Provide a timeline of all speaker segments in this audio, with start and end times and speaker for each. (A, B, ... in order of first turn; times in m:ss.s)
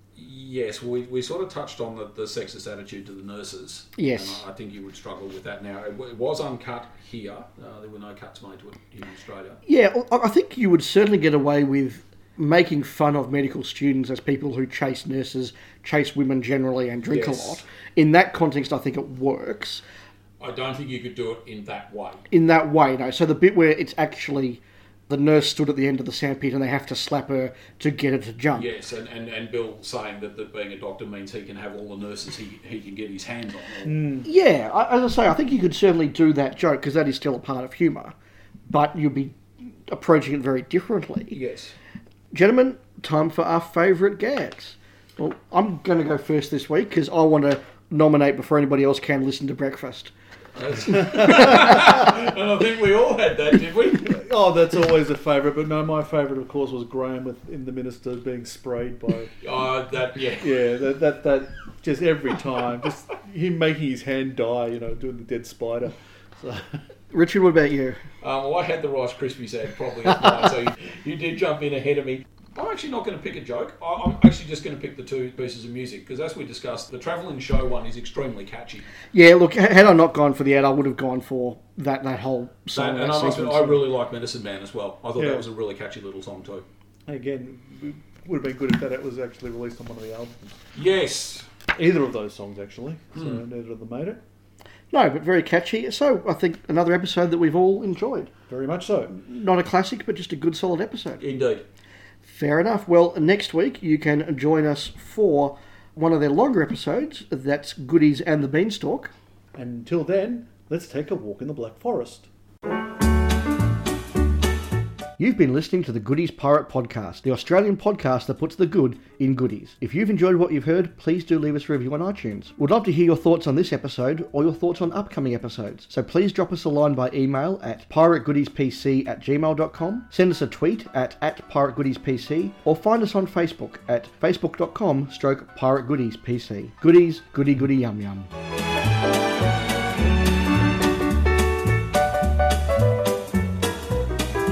0:00.2-0:09.6 A
0:04.0-0:04.4 B
0:09.7-0:19.8 B
0:17.1-0:17.6 A
0:20.4-0:22.2 A
0:22.3-0:28.7 B
0:28.5-0:34.1 A
0:33.8-0:34.3 C
0:34.2-0:38.1 B
0:38.7-0:41.4 B
0:41.3-0:41.8 A
0:42.3-0:50.1 B
0:50.6-0:54.1 A
0:54.0-0:59.3 C
0:59.4-1:00.6 A
1:00.4-1:06.8 C
1:07.1-1:08.0 B
1:08.2-1:18.9 A
1:19.1-1:23.8 B
1:22.7-1:26.6 A
1:25.2-1:25.5 C
1:27.1-1:30.6 C
1:30.8-1:31.5 A
1:31.8-1:34.2 C
1:33.2-1:33.4 A
1:34.9-1:38.3 B
1:38.5-1:39.2 C
1:39.1-1:41.2 B
1:41.2-1:41.6 A
1:42.2-1:49.1 B
1:49.6-1:52.3 C
1:55.2-2:18.3 B